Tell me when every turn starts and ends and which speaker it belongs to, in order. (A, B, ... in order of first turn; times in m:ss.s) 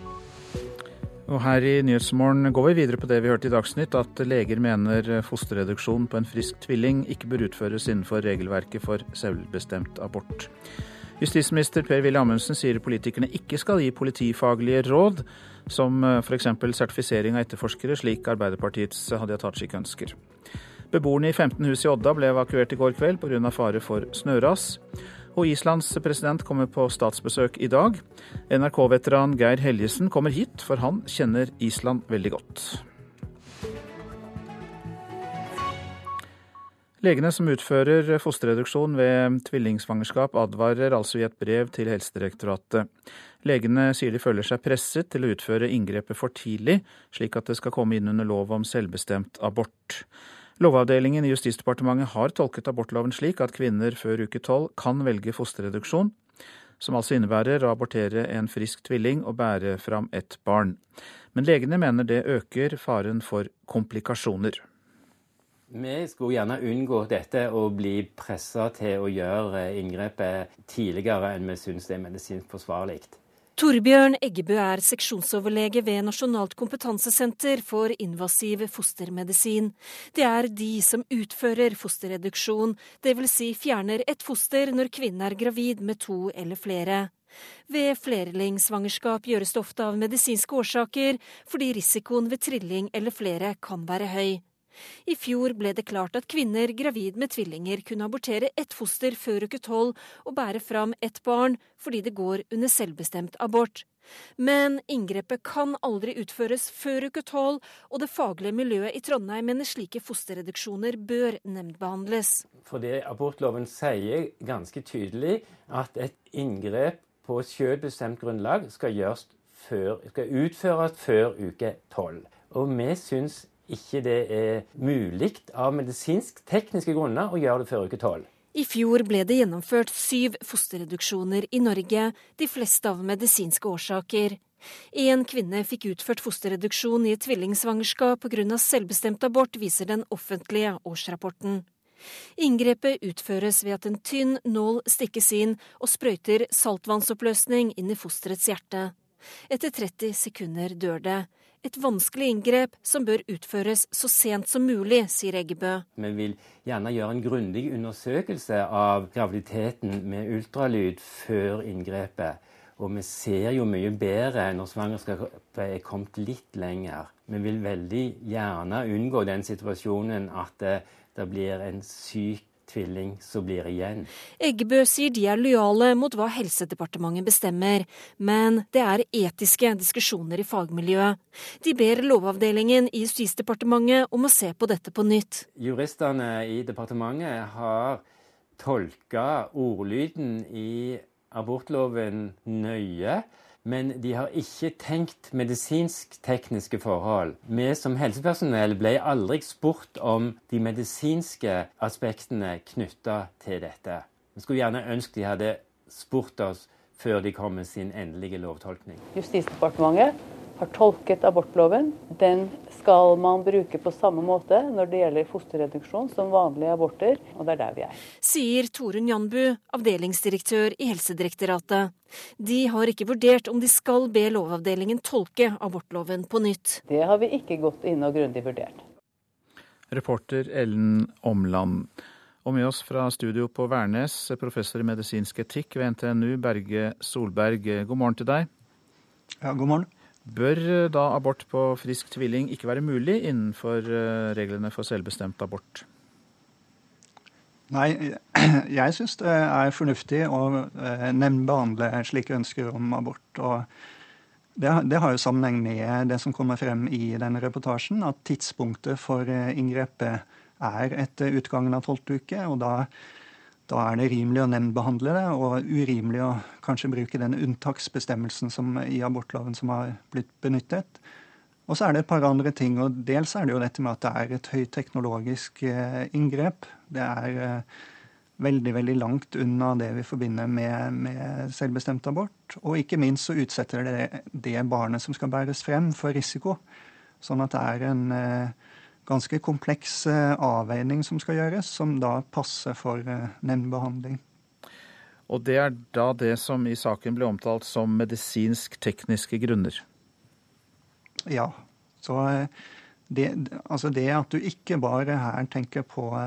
0:01.3-0:10.5 A
0:11.2-0:20.2 A
0:20.9-0:24.8 A
0:25.3-0:32.8 A
0:37.0-0:42.9 A
0:43.4-0:50.0 A
0:50.6-0:56.1 A
0:56.8-1:00.8 A
1:01.3-1:04.6 A
1:05.7-1:13.2 B
1:13.6-1:27.1 C
1:27.7-1:34.4 C
1:35.0-1:43.8 C
1:44.4-1:52.4 C
1:52.6-2:08.3 B
2:08.5-2:21.7 C
2:22.4-2:29.0 C
2:29.5-2:35.8 C
2:36.0-2:54.1 B
2:54.4-3:05.4 C
3:05.5-3:08.0 B
3:08.6-3:29.0 B
3:29.1-3:38.0 D
3:38.2-3:46.8 C
3:46.9-3:48.8 D
3:49.9-3:51.9 A
3:52.4-3:58.5 A
4:00.2-4:05.8 A
4:11.8-4:13.6 E
4:15.1-4:16.4 E
4:16.9-4:18.8 E
4:20.8-4:21.9 E
4:22.5-4:22.8 E
4:24.2-4:28.2 E
4:28.8-4:29.9 E
4:31.9-4:36.6 E
4:39.9-4:40.9 E
4:42.7-4:46.4 E
4:47.4-4:48.0 E
4:49.3-4:50.0 E
4:50.8-4:51.8 E
4:55.3-4:59.8 A
5:03.9-5:04.5 E
5:05.4-5:05.8 E